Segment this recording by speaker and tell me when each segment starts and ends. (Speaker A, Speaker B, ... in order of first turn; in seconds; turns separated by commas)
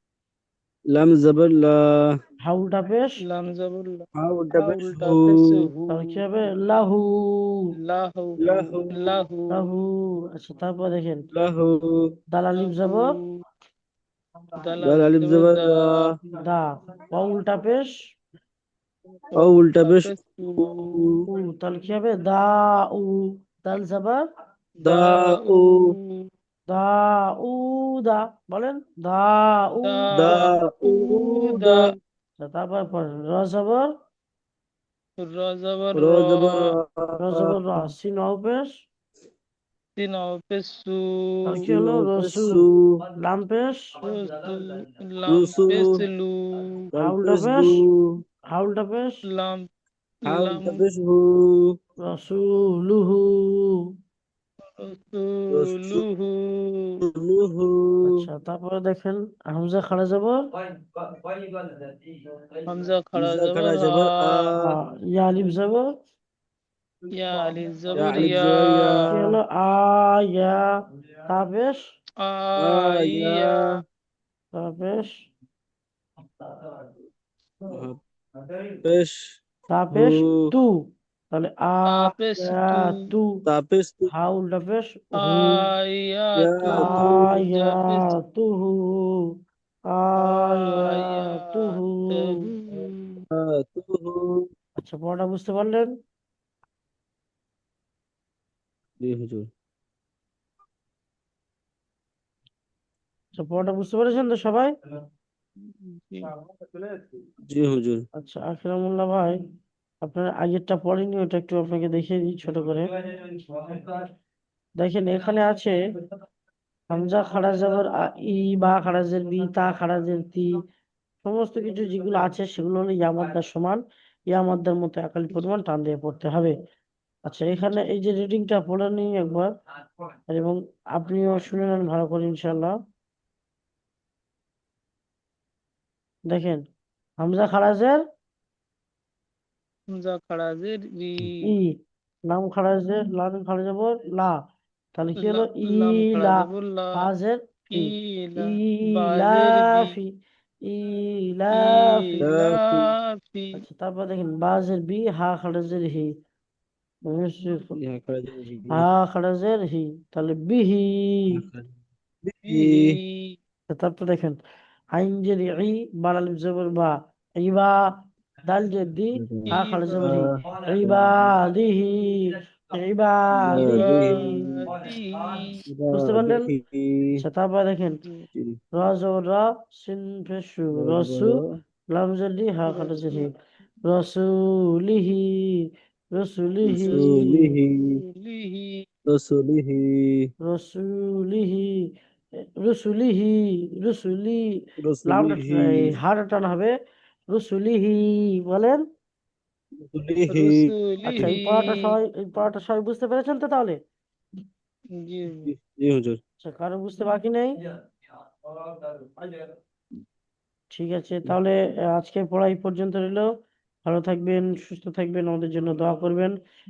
Speaker A: 0.9-2.2, Speaker B: 2.4-3.2, Speaker C: 3.2-6.2, Speaker A: 4.2-5.7, Speaker B: 5.9-7.7, Speaker C: 7.8-9.7, Speaker A: 8.4-9.2, Speaker B: 9.5-11.3, Speaker A: 11.3-12.1, Speaker B: 12.3-13.1, Speaker C: 12.6-13.3, Speaker C: 14.6-16.1, Speaker A: 14.8-16.1, Speaker B: 16.4-18.0, Speaker C: 19.3-20.6, Speaker A: 19.4-21.2, Speaker B: 21.3-24.2, Speaker C: 24.8-26.3, Speaker A: 24.8-25.9, Speaker B: 26.7-30.3, Speaker C: 29.8-31.9, Speaker A: 30.1-31.9, Speaker B: 32.4-33.9, Speaker C: 35.2-36.7, Speaker A: 35.9-37.8, Speaker B: 37.2-38.8, Speaker C: 40.0-41.4, Speaker B: 41.5-42.6, Speaker A: 41.5-43.0, Speaker B: 43.2-43.9, Speaker C: 44.0-46.7, Speaker A: 45.3-46.0, Speaker A: 46.9-48.2, Speaker B: 47.0-47.8, Speaker B: 48.5-49.2, Speaker C: 49.3-49.7, Speaker C: 50.2-50.8, Speaker A: 50.2-51.8, Speaker B: 52.0-53.9, Speaker C: 54.8-57.0, Speaker A: 55.5-56.0, Speaker A: 57.0-58.3, Speaker B: 58.0-60.4, Speaker B: 61.3-61.7, Speaker C: 62.6-64.5, Speaker A: 63.1-64.8, Speaker B: 64.6-65.9, Speaker C: 67.1-69.2, Speaker A: 68.0-69.2, Speaker B: 69.0-70.7, Speaker B: 71.3-71.8, Speaker C: 72.2-73.8, Speaker A: 72.6-73.8, Speaker B: 74.5-75.3, Speaker A: 77.7-78.0, Speaker A: 78.8-79.4, Speaker B: 79.7-80.8, Speaker A: 79.9-80.5, Speaker B: 81.3-83.4, Speaker C: 81.9-83.0, Speaker A: 83.5-84.1, Speaker B: 84.1-85.6, Speaker C: 85.2-88.1, Speaker A: 86.4-87.3, Speaker B: 86.7-89.2, Speaker B: 89.9-92.4, Speaker C: 90.2-93.2, Speaker A: 93.3-94.5, Speaker B: 94.8-95.9, Speaker A: 99.0-99.5, Speaker B: 103.3-104.7, Speaker C: 105.6-106.3, Speaker A: 107.5-108.0, Speaker B: 108.2-109.4, Speaker B: 110.0-112.9, Speaker B: 113.5-114.0, Speaker B: 114.8-115.8, Speaker B: 116.9-120.5, Speaker B: 121.2-123.8, Speaker B: 124.3-126.5, Speaker B: 127.2-129.5, Speaker B: 130.3-132.8, Speaker B: 136.3-136.6, Speaker B: 137.2-138.0, Speaker C: 139.9-141.5, Speaker B: 141.4-141.8, Speaker B: 142.3-144.4, Speaker B: 144.9-146.4, Speaker C: 145.2-147.1, Speaker B: 146.9-150.1, Speaker C: 147.7-149.9, Speaker B: 150.7-152.2, Speaker C: 151.5-153.6, Speaker A: 152.2-152.9, Speaker B: 153.5-156.1, Speaker B: 157.1-157.7, Speaker A: 157.8-158.9, Speaker B: 158.7-161.2, Speaker A: 161.3-161.7, Speaker A: 162.2-163.0, Speaker C: 162.5-163.3, Speaker B: 163.7-164.4, Speaker B: 164.9-167.8, Speaker B: 168.4-174.4, Speaker A: 169.2-171.2, Speaker C: 169.5-170.2, Speaker C: 173.5-175.6, Speaker A: 173.5-174.2, Speaker A: 175.7-177.2, Speaker B: 175.9-176.5, Speaker B: 177.2-178.0, Speaker B: 178.8-181.4, Speaker A: 180.7-181.6, Speaker B: 181.9-183.3, Speaker C: 182.7-183.3, Speaker B: 183.8-187.5, Speaker A: 186.7-188.0, Speaker C: 186.8-188.8, Speaker A: 189.1-190.3, Speaker B: 190.4-191.8, Speaker B: 192.4-196.7, Speaker A: 194.8-196.0, Speaker B: 197.3-198.8, Speaker A: 199.8-201.3, Speaker C: 200.3-201.9, Speaker B: 201.1-203.8, Speaker C: 205.0-205.5, Speaker A: 205.4-206.2, Speaker B: 206.4-207.6, Speaker B: 210.7-213.3, Speaker B: 213.8-216.3